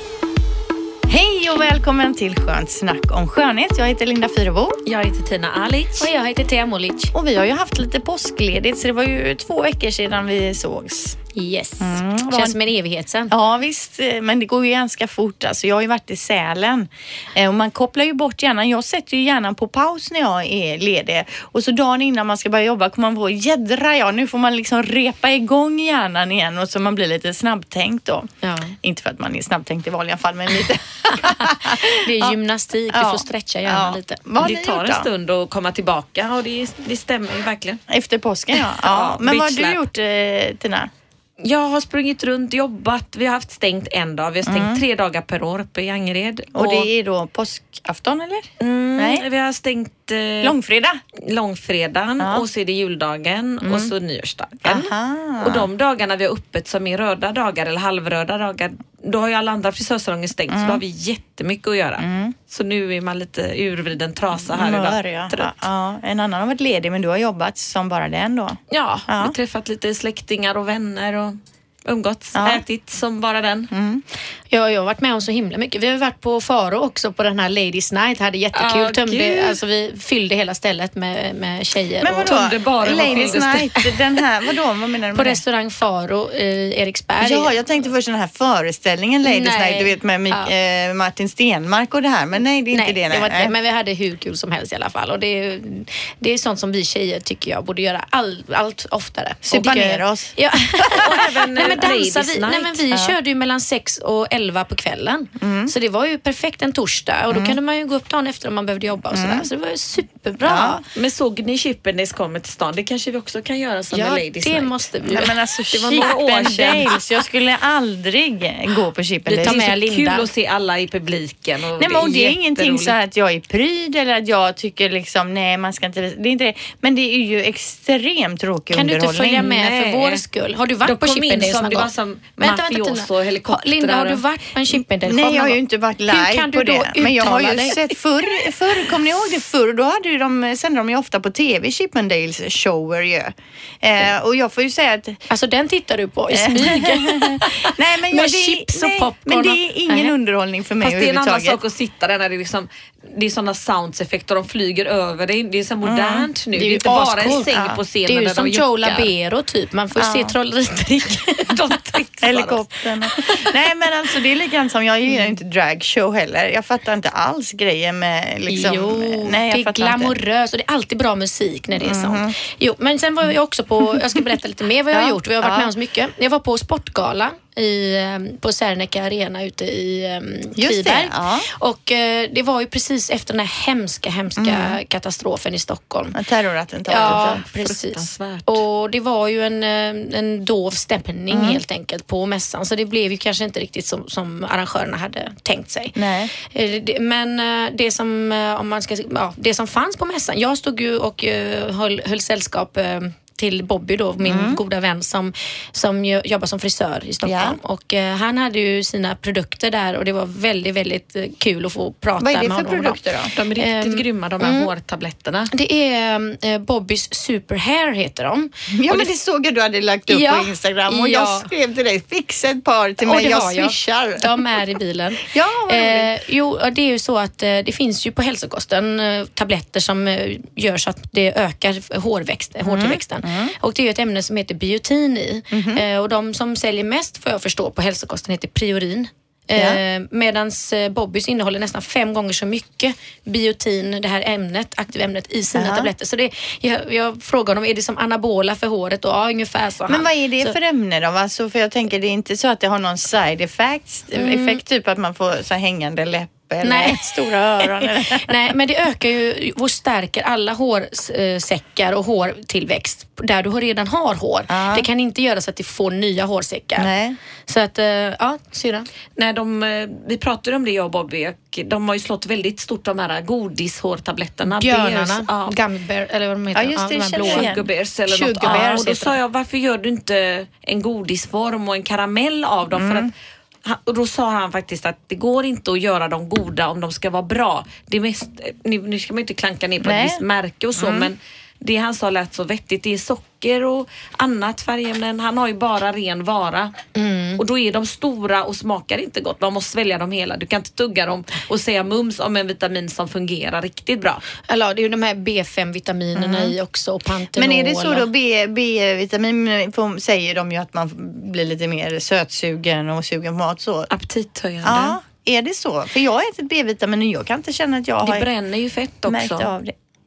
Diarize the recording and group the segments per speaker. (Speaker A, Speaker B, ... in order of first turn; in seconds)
Speaker A: 1.1-4.8, 7.1-11.2, 11.8-12.6, 13.3-28.3, 28.8-32.4, 32.9-35.1, 37.9-40.9, 44.5-44.8, 46.5-49.2, 50.4-51.0, 52.2-52.5, 53.6-53.9, 54.6-55.7, 60.5-60.8, 62.0-62.3, 64.4-69.3, 72.3-72.6, 73.7-74.0, 82.0-85.4, 87.2-93.5, 99.4-101.2, 102.9-103.2, 105.4-105.7, 107.3-107.5, 109.1-109.5, 110.4-110.8, 115.0-119.6, 121.8-129.5, 135.0-145.2, 146.3-151.6, 155.8-156.3, 157.3-157.8, 159.9-160.3, 162.2-170.1, 171.8-172.3, 173.8-174.2, 174.9-175.7, 180.6-181.5, 184.4-184.8, 186.1-187.4, 191.3-191.6, 195.9-196.3, 204.2-204.6, 207.2-207.6, 212.2-213.3, 218.7-224.4, 225.2-226.1, 232.6-233.5, 235.5-235.8, 239.5-239.8, 245.6-245.9, 249.9-258.5, 264.5-264.9, 266.8-267.2, 276.5-277.6, 278.4-278.9, 282.7-283.1, 289.8-290.2, 290.8-291.1, 306.1-306.5, 307.3-313.9, 314.6-318.3, 319.1-319.7
Speaker B: 4.8-6.1, 34.4-37.8, 38.6-39.8, 41.4-46.9, 48.6-50.5, 51.2-65.5, 68.8-73.7, 78.5-79.6, 82.2-83.7, 101.0-102.8, 110.9-114.8, 115.7-116.9, 119.3-122.9, 129.3-130.2, 130.8-134.2, 150.8-159.1, 161.5-162.6, 187.0-188.6, 213.3-215.5, 269.2-275.5, 277.1-283.1, 283.6-296.7, 297.4-304.2, 313.9-315.0, 318.0-319.5
Speaker C: 6.0-7.1, 11.3-13.3, 28.4-28.7, 31.2-34.2, 74.5-82.3, 85.1-87.5, 89.2-90.5, 92.7-110.8, 113.9-116.1, 119.3-120.3, 128.7-137.8, 145.3-150.1, 156.5-157.5, 158.0-162.0, 163.2-163.4, 168.5-186.2, 186.9-213.0, 213.6-214.7, 215.5-219.1, 220.1-221.5, 223.0-250.5, 254.1-254.6, 256.6-266.9, 267.5-268.9, 274.4-277.5, 278.1-279.1, 296.9-297.4, 304.5-308.1